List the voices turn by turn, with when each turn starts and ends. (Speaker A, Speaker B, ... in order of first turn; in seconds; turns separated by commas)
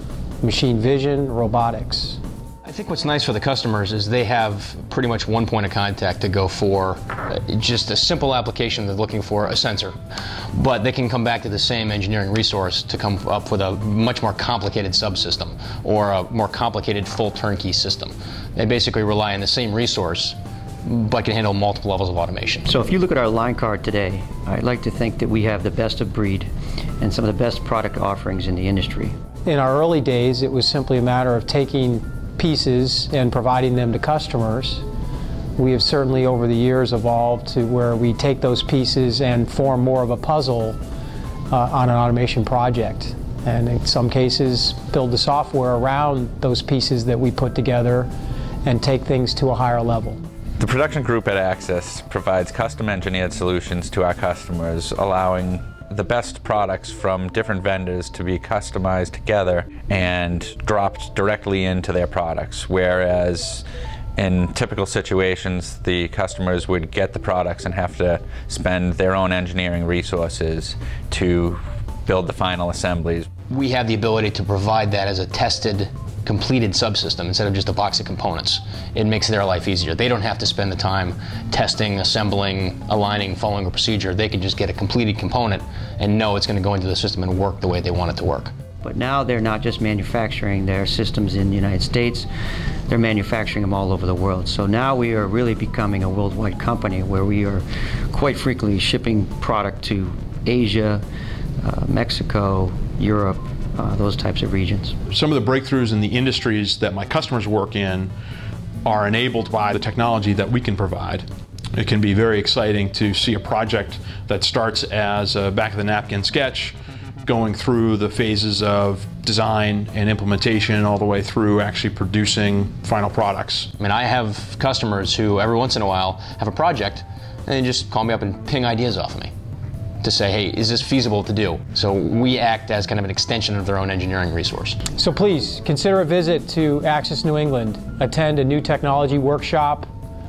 Speaker A: 0.4-2.2, Speaker B: 2.6-9.9, Speaker B: 10.6-22.7, Speaker C: 22.7-29.1, Speaker A: 29.4-34.8, Speaker A: 35.5-40.8, Speaker A: 41.5-48.1, Speaker A: 48.6-50.2, Speaker D: 50.6-63.6, Speaker D: 64.2-73.3, Speaker B: 73.5-88.5, Speaker C: 88.8-92.3, Speaker C: 92.9-101.0, Speaker C: 101.6-105.0, Speaker E: 105.1-108.1, Speaker E: 108.8-111.2, Speaker E: 111.8-116.7, Speaker E: 117.3-123.7, Speaker B: 123.8-129.3, Speaker B: 130.0-134.8, Speaker A: 135.0-139.9